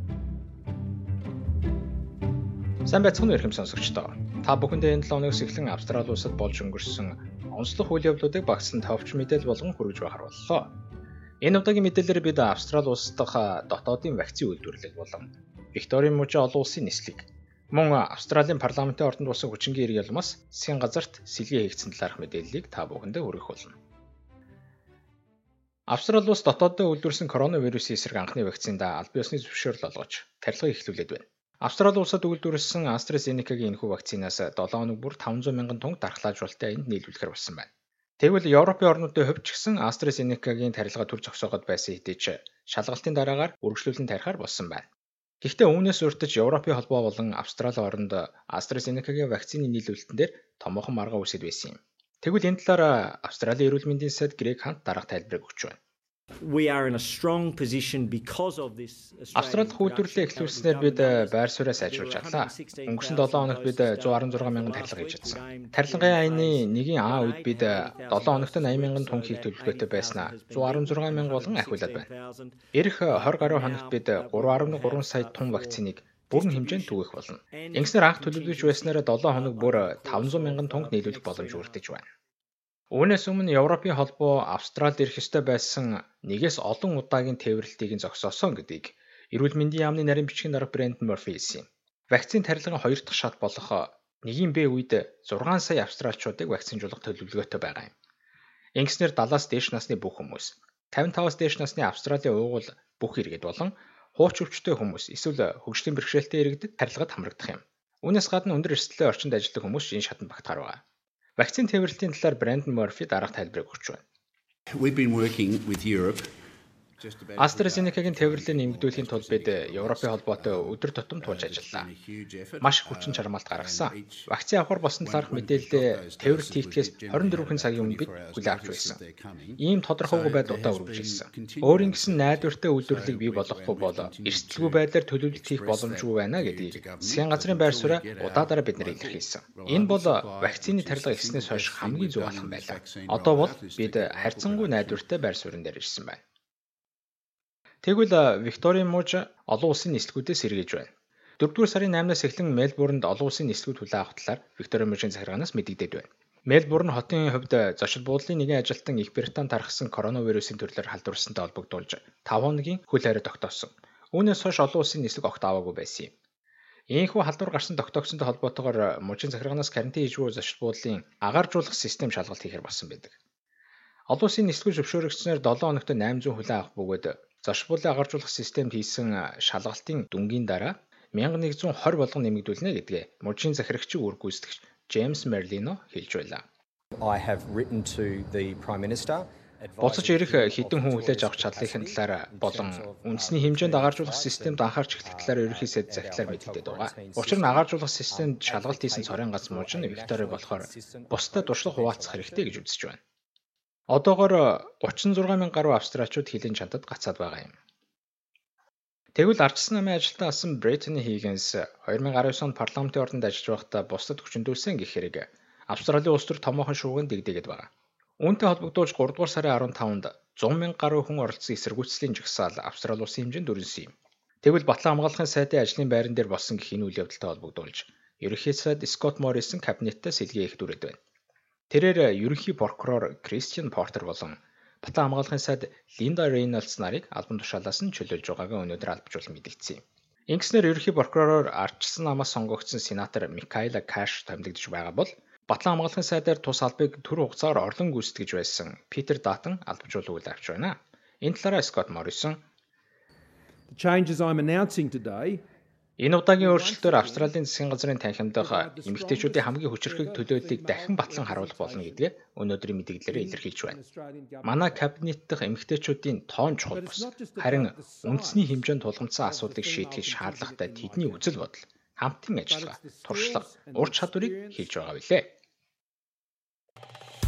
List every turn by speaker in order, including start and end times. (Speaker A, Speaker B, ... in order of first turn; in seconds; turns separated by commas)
Speaker A: 2.9-10.7, Speaker A: 11.4-23.8, Speaker A: 25.9-37.7, Speaker A: 38.2-44.9, Speaker A: 45.4-55.8, Speaker B: 56.4-81.8, Speaker A: 59.3-72.1, Speaker A: 72.7-82.1, Speaker A: 82.9-97.9, Speaker A: 98.8-110.8, Speaker A: 111.4-114.0, Speaker C: 114.8-116.3, Speaker C: 117.0-124.3, Speaker A: 117.4-121.9, Speaker A: 122.6-129.0, Speaker C: 125.0-145.1, Speaker A: 129.6-146.2, Speaker A: 147.8-166.1, Speaker A: 166.9-173.2, Speaker A: 174.1-186.4, Speaker D: 187.0-202.6, Speaker A: 189.8-203.0, Speaker A: 203.9-207.5, Speaker A: 209.2-217.7, Speaker A: 218.2-223.9, Speaker A: 224.4-231.0, Speaker A: 231.7-252.4, Speaker E: 253.7-255.3, Speaker A: 256.0-263.8, Speaker E: 256.4-257.3, Speaker E: 258.4-262.0, Speaker E: 263.1-264.9, Speaker A: 264.4-275.3, Speaker E: 266.8-268.5, Speaker E: 269.3-271.3, Speaker E: 272.5-274.7